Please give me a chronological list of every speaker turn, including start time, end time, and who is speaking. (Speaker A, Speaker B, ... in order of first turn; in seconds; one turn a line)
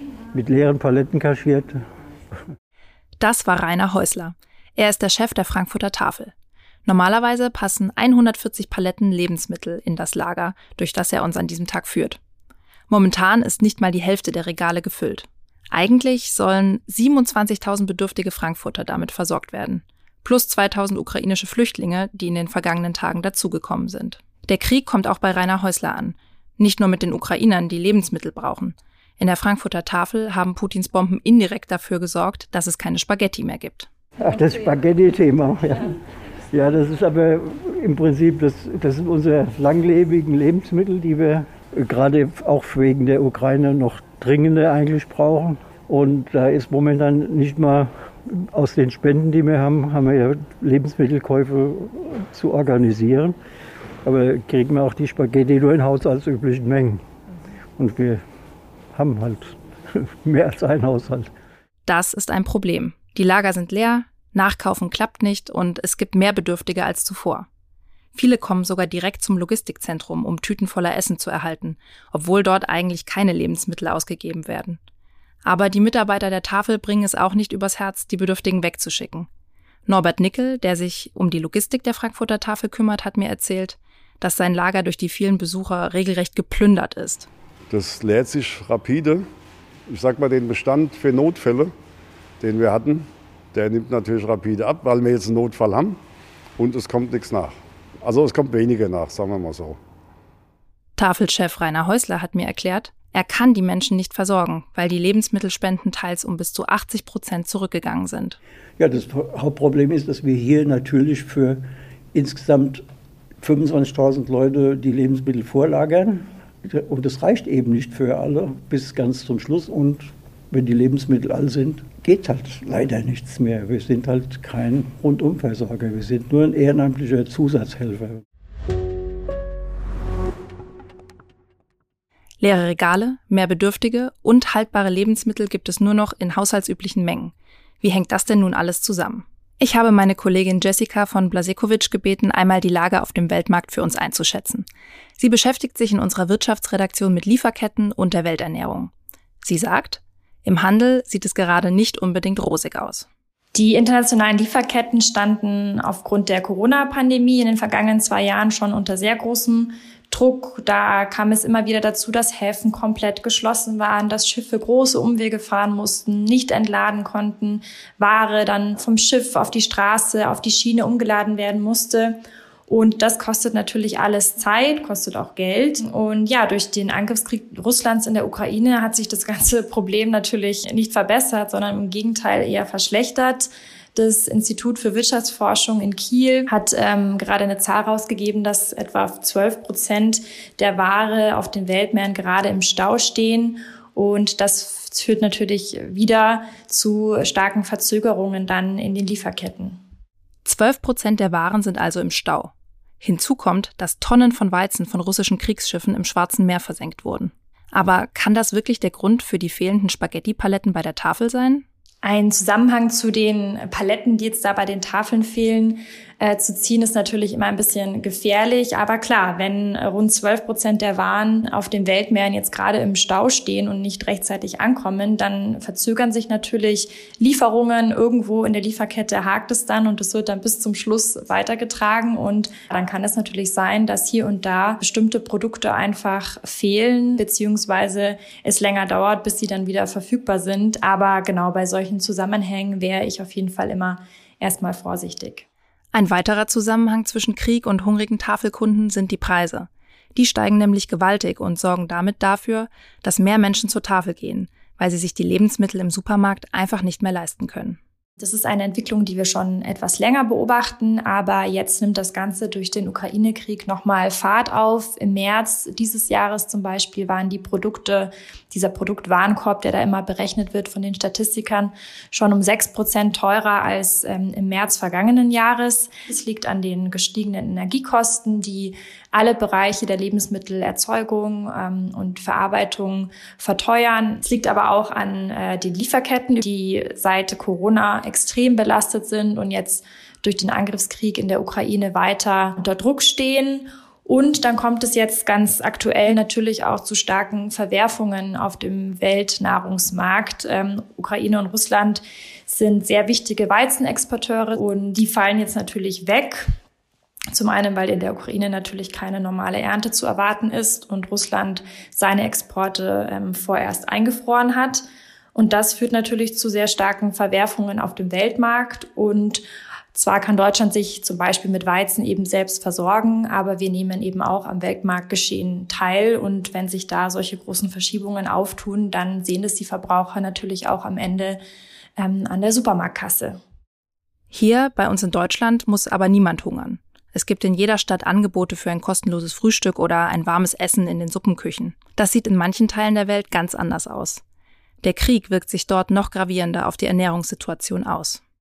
Speaker A: 0.3-1.8
Speaker B: 3.2-6.3
Speaker B: 6.9-12.2
Speaker B: 12.9-33.9
Speaker A: 34.2-53.4
Speaker A: 54.0-57.0
Speaker A: 57.8-58.2
Speaker A: 58.9-61.3
Speaker B: 61.9-67.5
Speaker B: 68.2-74.8
Speaker B: 75.5-79.3
Speaker B: 79.9-87.3
Speaker C: 87.7-89.3
Speaker C: 89.9-91.7
Speaker C: 92.4-96.0
Speaker C: 96.6-99.8
Speaker B: 101.0-108.4
Speaker A: 108.8-112.9
Speaker A: 113.4-128.2
Speaker B: 132.4-144.7
Speaker B: 145.2-148.9
Speaker B: 149.4-153.1
Speaker D: 153.6-199.8
Speaker B: 200.4-211.7
Speaker D: 212.0-245.4
Speaker B: 245.9-257.8
Speaker D: 258.2-306.5
Speaker D: 307.3-331.4
Speaker D: 332.0-333.4
Speaker B: 334.3-344.2
Speaker B: 344.8-348.2